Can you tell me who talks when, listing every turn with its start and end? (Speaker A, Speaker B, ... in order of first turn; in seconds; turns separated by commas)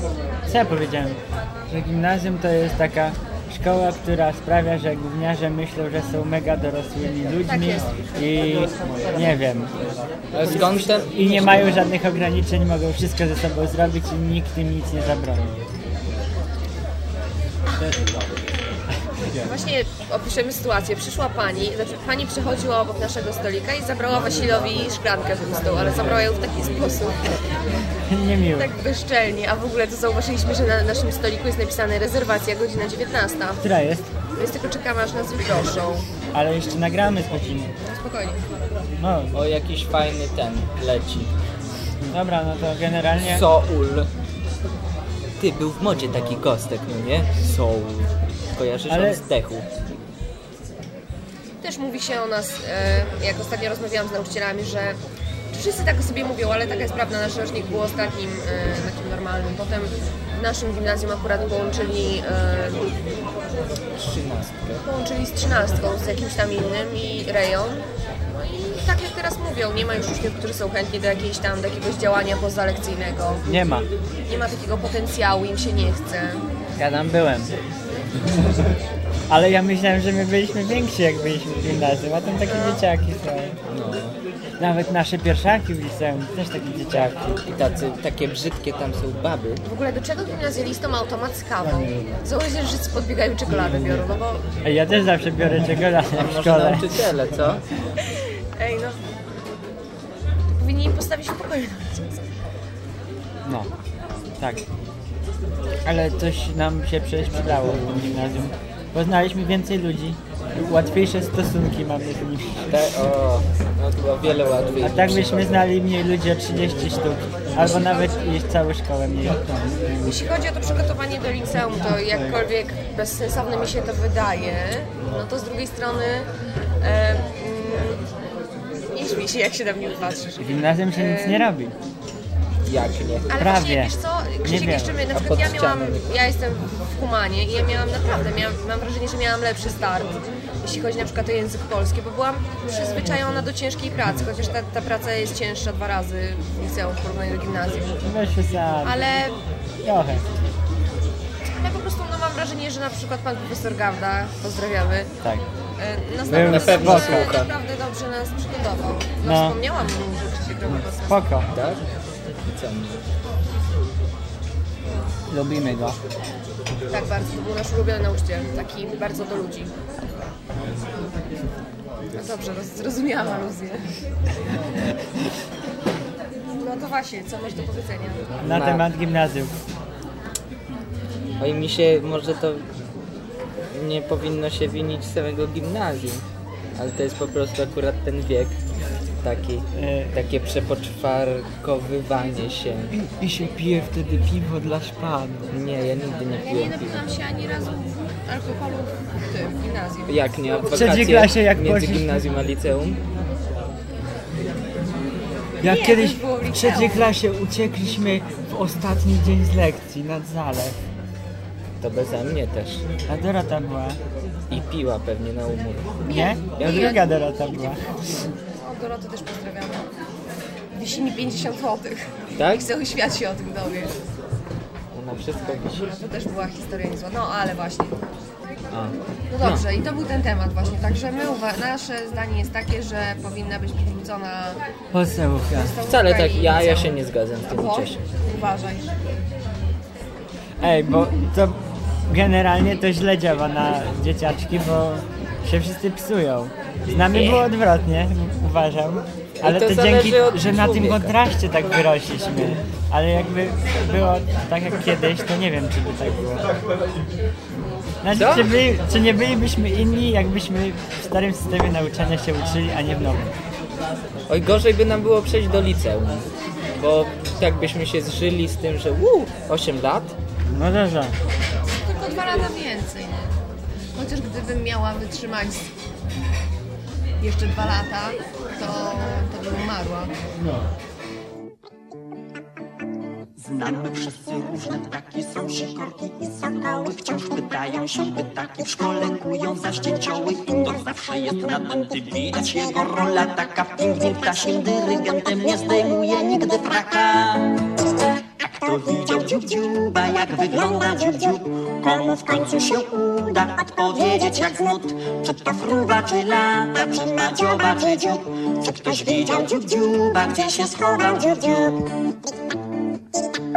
Speaker A: 0.5-9.8, Speaker B: 7.5-7.9, Speaker C: 10.3-11.7, Speaker A: 10.5-15.6, Speaker B: 19.5-27.6, Speaker A: 28.1-28.7, Speaker B: 28.5-33.7, Speaker A: 33.6-34.1, Speaker B: 34.3-36.0, Speaker A: 36.3-37.7, Speaker B: 37.9-38.4, Speaker A: 39.0-39.4, Speaker C: 39.3-41.3, Speaker A: 42.1-43.5, Speaker C: 43.2-44.1, Speaker C: 45.4-49.7, Speaker A: 48.9-49.2, Speaker B: 51.6-55.0, Speaker B: 55.5-62.9, Speaker C: 63.9-64.8, Speaker B: 64.8-73.4, Speaker A: 73.5-73.9, Speaker B: 74.3-76.5, Speaker A: 76.8-77.5, Speaker A: 79.3-83.6, Speaker B: 82.5-82.8, Speaker C: 83.7-84.2, Speaker A: 84.6-87.4, Speaker C: 86.9-89.6, Speaker B: 89.7-94.5, Speaker A: 94.6-97.0, Speaker C: 96.1-97.6, Speaker B: 98.0-99.0, Speaker B: 100.5-102.2, Speaker A: 103.4-103.7, Speaker A: 104.4-104.6, Speaker A: 105.8-112.7, Speaker C: 112.7-115.6, Speaker A: 114.8-119.4, Speaker B: 120.0-126.3, Speaker B: 126.8-128.1, Speaker B: 128.9-131.5, Speaker A: 130.4-131.8, Speaker C: 132.7-133.3, Speaker B: 133.3-148.0, Speaker A: 133.4-135.0, Speaker C: 135.1-136.1, Speaker A: 148.0-149.0, Speaker B: 148.8-149.3, Speaker A: 149.8-150.2, Speaker B: 151.6-155.1, Speaker B: 155.8-161.2, Speaker A: 156.3-157.3, Speaker C: 156.3-157.5, Speaker A: 159.2-159.6, Speaker A: 161.1-161.5, Speaker C: 161.5-161.8, Speaker C: 162.4-163.0, Speaker A: 165.3-166.0, Speaker B: 166.9-169.7, Speaker B: 172.2-173.9, Speaker B: 176.6-178.3, Speaker A: 178.4-179.5, Speaker C: 178.4-178.8, Speaker C: 181.4-182.7, Speaker C: 183.7-186.2, Speaker C: 186.8-188.6, Speaker C: 189.2-192.9, Speaker A: 189.7-190.2, Speaker A: 192.9-195.5, Speaker C: 195.5-197.0, Speaker B: 196.4-200.2, Speaker C: 200.1-203.0, Speaker A: 200.7-202.1, Speaker B: 205.6-207.1, Speaker A: 205.6-210.8, Speaker C: 211.8-212.8, Speaker A: 213.1-214.0, Speaker C: 214.5-216.0, Speaker B: 216.1-217.1, Speaker A: 216.1-217.8, Speaker B: 218.6-219.9, Speaker B: 220.7-224.0, Speaker C: 222.4-222.7, Speaker C: 224.9-225.9, Speaker B: 225.7-228.0, Speaker C: 228.7-229.7, Speaker B: 229.3-234.6, Speaker A: 234.9-235.8, Speaker B: 235.5-237.0, Speaker C: 235.9-238.0, Speaker B: 237.5-238.9, Speaker A: 240.6-256.5, Speaker C: 247.1-247.5, Speaker C: 249.4-251.1, Speaker A: 258.0-263.4, Speaker C: 258.1-258.6, Speaker C: 264.3-270.1, Speaker A: 270.5-271.2, Speaker B: 271.8-273.4, Speaker B: 273.9-275.7, Speaker B: 277.2-280.1, Speaker D: 283.4-297.6, Speaker D: 298.6-312.1